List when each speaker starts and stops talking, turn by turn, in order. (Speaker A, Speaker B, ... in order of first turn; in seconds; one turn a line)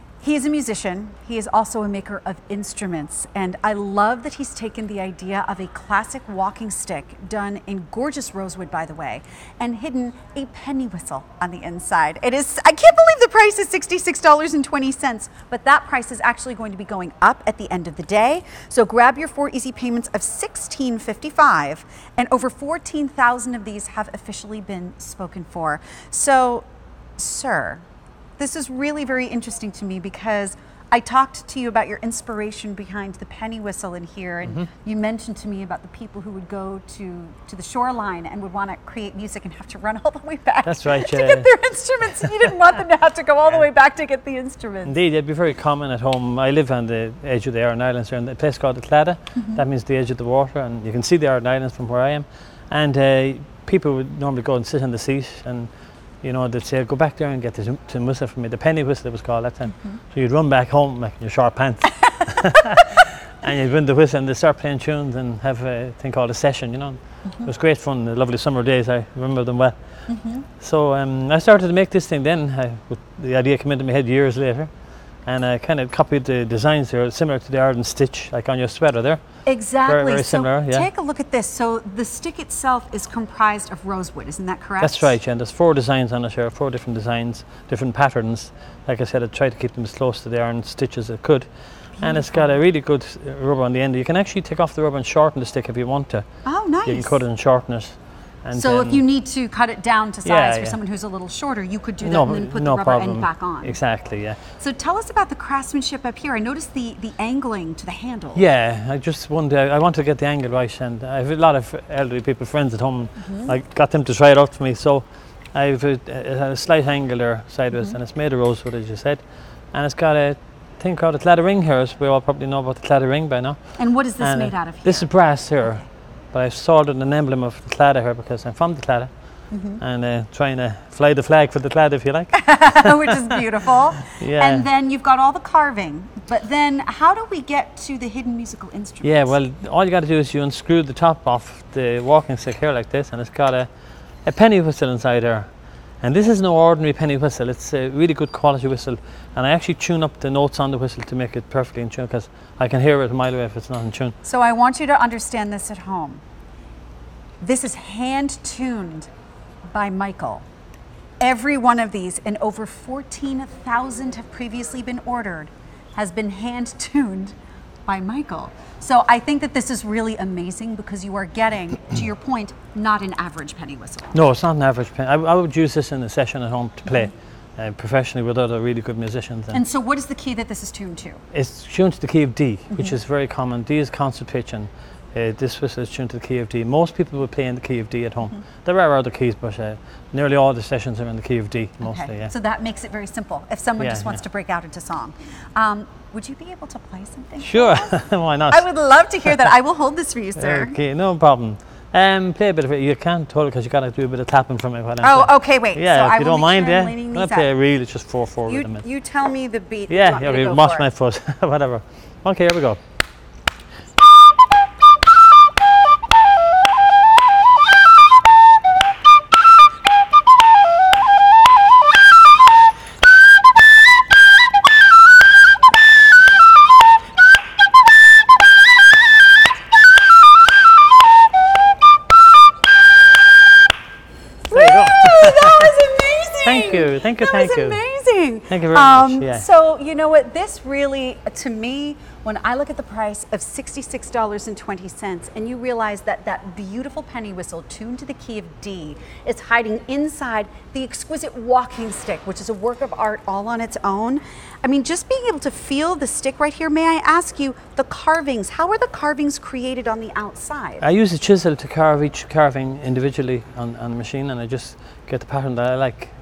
Speaker A: 0.2-27.8
Speaker A: 28.4-45.0
Speaker B: 40.6-41.5
Speaker B: 44.8-69.8
Speaker A: 49.4-49.6
Speaker A: 70.1-70.5
Speaker B: 70.5-74.7
Speaker B: 75.2-80.9
Speaker A: 79.5-85.2
Speaker B: 84.8-96.3
Speaker A: 92.0-92.5
Speaker A: 96.5-97.2
Speaker B: 96.8-99.0
Speaker A: 98.5-103.8
Speaker B: 100.2-100.8
Speaker B: 102.0-104.4
Speaker A: 104.6-108.5
Speaker B: 108.3-133.4
Speaker A: 113.2-113.5
Speaker A: 123.8-125.8
Speaker A: 129.5-129.8
Speaker A: 132.3-139.3
Speaker B: 134.0-134.7
Speaker B: 139.0-143.7
Speaker B: 144.2-154.2
Speaker A: 154.2-156.2
Speaker A: 157.4-159.1
Speaker A: 159.7-160.4
Speaker A: 161.2-174.2
Speaker B: 174.1-179.6
Speaker A: 179.5-181.2
Speaker B: 181.3-192.3
Speaker A: 191.8-200.8
Speaker B: 193.8-194.2
Speaker B: 197.4-198.7
Speaker B: 200.4-208.8
Speaker A: 205.0-207.5
Speaker A: 208.5-210.9
Speaker B: 209.9-212.8
Speaker A: 234.5-260.9
Speaker B: 234.5-235.8
Speaker B: 236.4-237.8
Speaker B: 238.5-239.5
Speaker B: 260.8-266.1